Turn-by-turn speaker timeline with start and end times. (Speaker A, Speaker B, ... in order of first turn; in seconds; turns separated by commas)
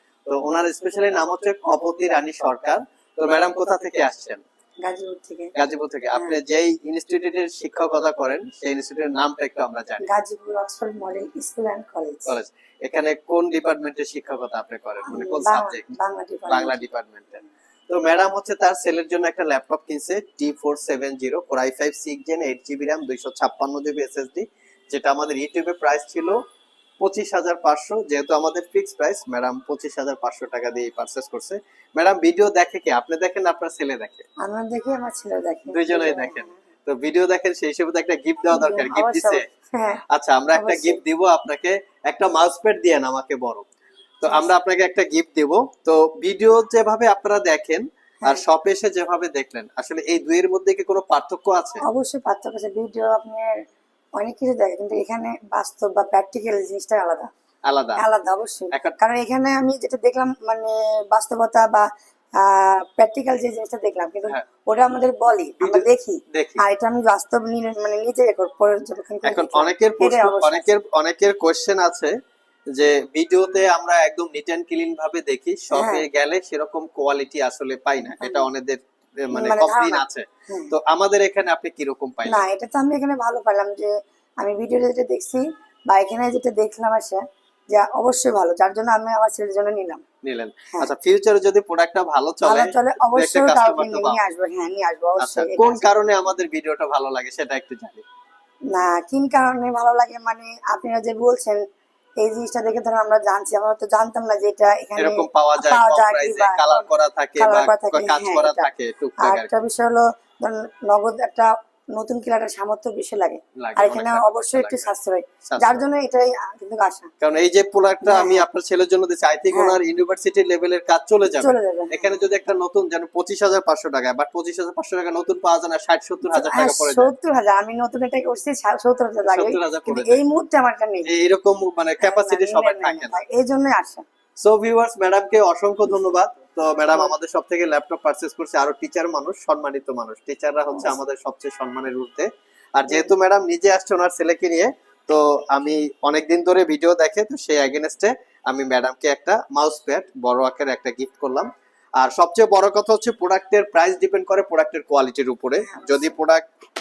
Speaker A: 0.3-4.4, Speaker B: 4.8-5.5, Speaker A: 5.5-10.1, Speaker B: 10.0-12.3, Speaker A: 12.3-15.9, Speaker B: 15.1-16.8, Speaker A: 16.5-26.4, Speaker A: 27.0-34.2, Speaker B: 34.4-36.6, Speaker A: 35.7-39.4, Speaker B: 38.5-40.0, Speaker A: 40.1-43.6, Speaker B: 40.5-41.0, Speaker A: 44.2-51.8, Speaker B: 51.9-53.5, Speaker B: 54.2-57.3, Speaker A: 57.7-58.0, Speaker B: 58.0-61.9, Speaker A: 58.7-59.0, Speaker B: 62.4-70.7, Speaker A: 65.6-66.6, Speaker A: 69.2-72.1, Speaker A: 72.7-82.4, Speaker B: 75.7-76.0, Speaker B: 78.2-78.5, Speaker B: 79.3-80.7, Speaker B: 82.3-90.0, Speaker A: 90.2-94.2, Speaker B: 92.4-95.9, Speaker A: 95.2-98.0, Speaker B: 98.7-101.6, Speaker B: 102.2-108.7, Speaker A: 105.0-109.5, Speaker B: 109.2-117.1, Speaker A: 113.6-114.9, Speaker A: 115.5-115.8, Speaker A: 117.2-127.1, Speaker B: 118.0-118.5, Speaker B: 119.5-119.8, Speaker B: 121.4-122.3, Speaker B: 126.2-131.1, Speaker A: 129.3-130.2, Speaker A: 131.1-133.2, Speaker B: 132.0-134.0, Speaker A: 134.4-156.4, Speaker B: 142.9-143.1, Speaker B: 155.6-156.2